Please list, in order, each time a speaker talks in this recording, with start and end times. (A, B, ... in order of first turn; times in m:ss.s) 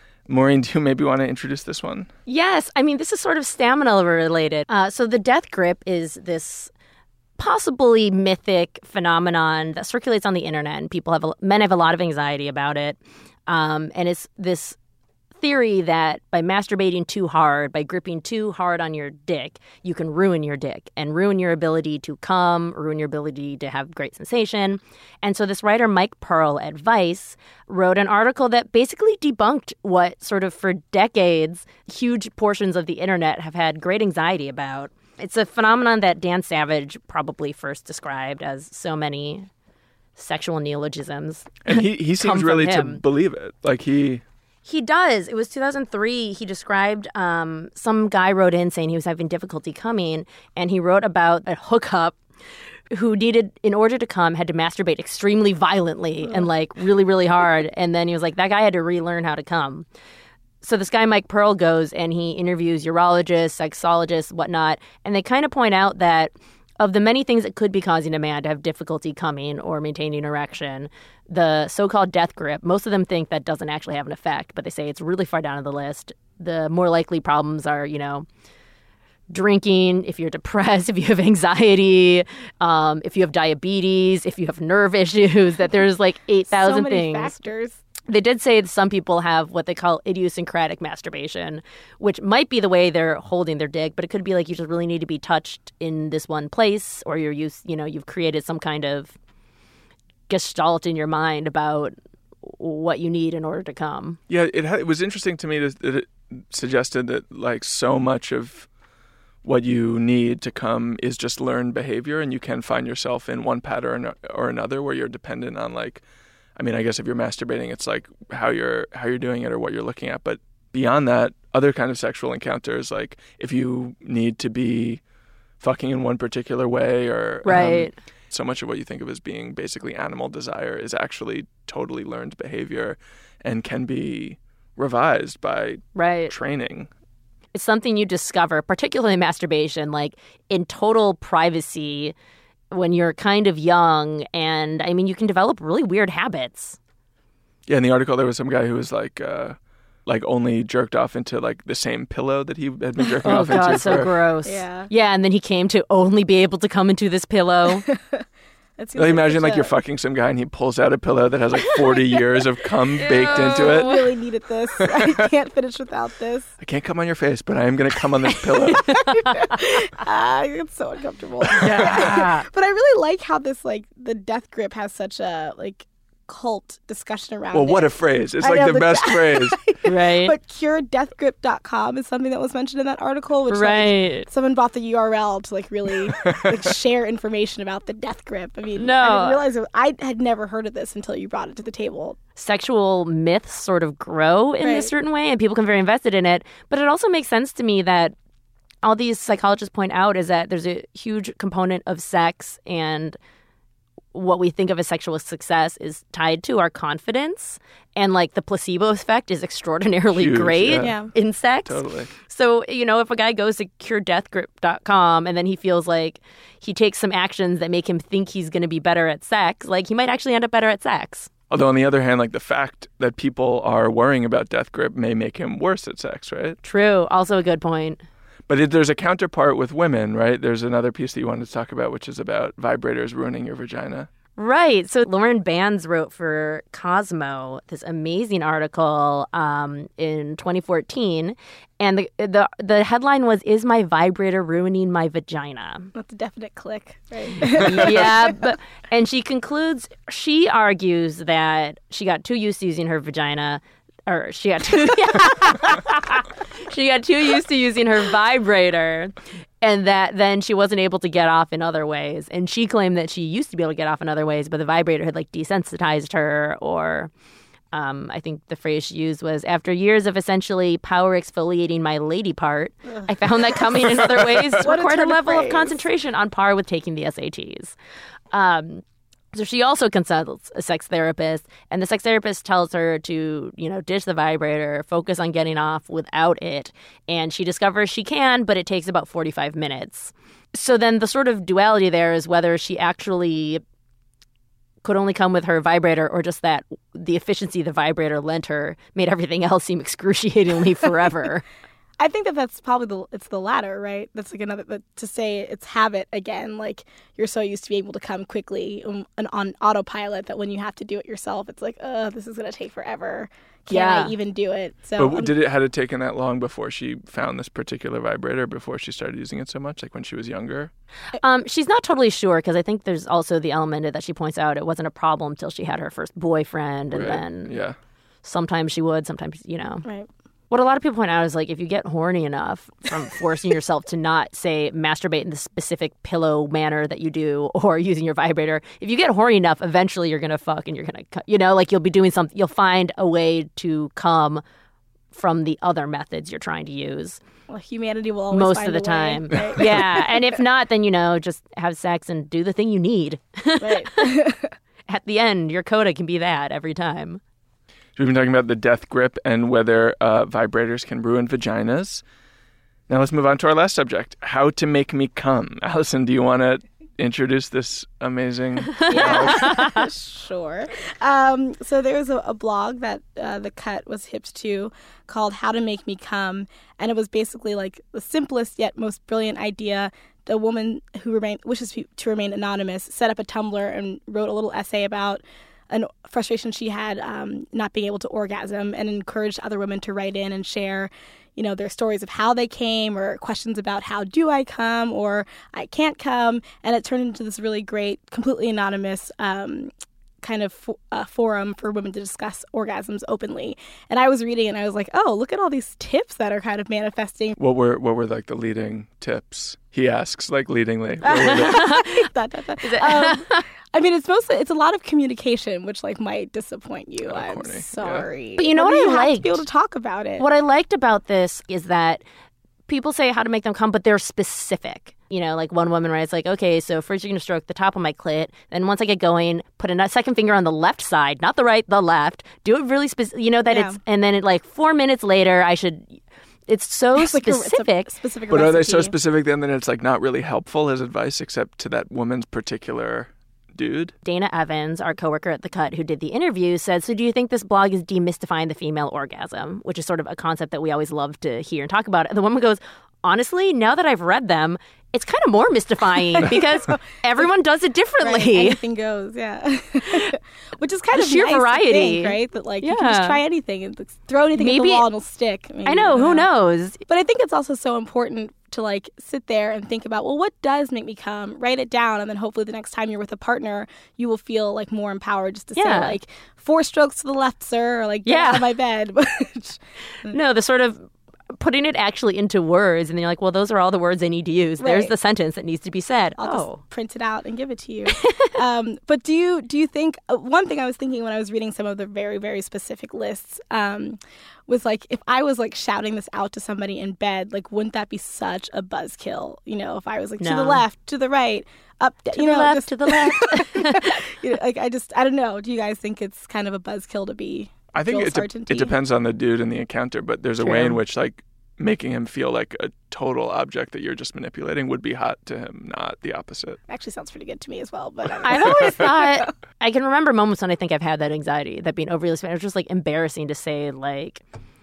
0:00.3-0:02.1 A
0:02.3-0:06.7 B
0:07.4-0:14.8 B
0:15.4-0:39.5 B
0:40.2-0:43.0 B
0:41.6-0:44.2 A
0:44.6-0:52.2 B
0:52.9-0:59.8 B
1:00.6-1:18.2 B
1:19.3-1:27.4 B
1:26.5-1:27.8 C
1:28.1-1:39.2 B
1:40.3-1:44.2 B
1:44.3-1:48.7 A
1:49.4-1:56.0 A
1:56.6-2:05.0 A
2:05.6-2:16.9 A
2:07.4-2:07.9 B
2:15.9-2:16.3 B
2:17.5-2:22.1 B
2:22.7-2:26.8 B
2:27.7-2:34.1 A
2:33.0-2:34.9 C
2:33.2-2:37.8 B
2:37.8-2:38.2 C
2:38.8-2:39.7 C
2:39.0-2:44.1 A
2:43.0-2:44.0 B
2:43.2-2:46.5 C
2:44.8-2:45.3 A
2:46.6-2:49.0 A
2:48.7-3:12.2 C
2:49.1-2:49.4 B
2:51.6-2:52.3 A
2:51.6-2:52.4 B
2:57.5-2:59.6 A
2:59.8-3:00.3 B
3:03.5-3:04.3 B
3:08.8-3:09.4 B
3:12.4-3:18.1 B
3:14.6-3:14.9 C
3:18.8-3:23.2 B
3:24.1-3:41.3 B
3:30.1-3:31.0 A
3:30.7-3:31.1 C
3:31.6-3:32.1 A
3:41.5-3:46.6 A
3:46.6-3:48.0 B
3:48.5-3:54.1 A
3:54.4-4:05.9 B
4:05.9-4:08.3 C
4:07.4-4:27.1 B
4:27.7-4:37.8 B
4:33.8-4:35.8 C
4:38.3-4:53.6 B
4:54.8-5:01.4 B
5:02.0-5:15.3 C
5:13.7-5:14.1 B
5:15.0-5:20.7 A
5:21.2-5:27.6 B
5:26.9-5:27.8 A
5:28.2-5:29.8 B
5:30.5-5:44.4 B
5:45.1-5:47.2 B
5:47.5-5:50.2 C
5:48.3-5:54.2 B
5:53.6-5:54.5 C
5:54.9-5:57.2 B
5:58.0-6:02.0 A
6:02.9-6:09.5 A
6:08.8-6:09.8 B
6:08.9-6:47.4 C
6:47.4-6:51.6 A
6:51.0-7:00.2 C
6:51.1-6:52.1 B
6:52.6-6:53.4 B
6:57.0-6:58.1 A
6:58.4-6:59.4 B
7:00.2-7:02.0 B
7:02.7-7:17.9 B
7:13.5-7:13.8 C
7:17.0-7:18.9 C
7:18.3-7:23.9 A
7:24.0-7:38.6 B
7:36.1-7:36.8 C
7:38.0-7:46.3 C
7:39.8-7:40.1 B
7:40.9-7:43.2 B
7:44.3-7:44.8 B
7:45.6-7:46.8 B
7:46.9-8:00.1 C
7:55.6-7:56.0 B
7:58.0-7:58.5 B
8:00.1-8:06.6 B
8:04.6-8:04.9 C
8:06.2-8:28.8 C
8:07.9-8:08.3 B
8:20.2-8:20.6 B
8:22.1-8:24.0 B
8:27.7-8:36.6 A
8:30.4-8:30.8 B
8:36.7-8:39.3 C
8:38.2-8:44.2 B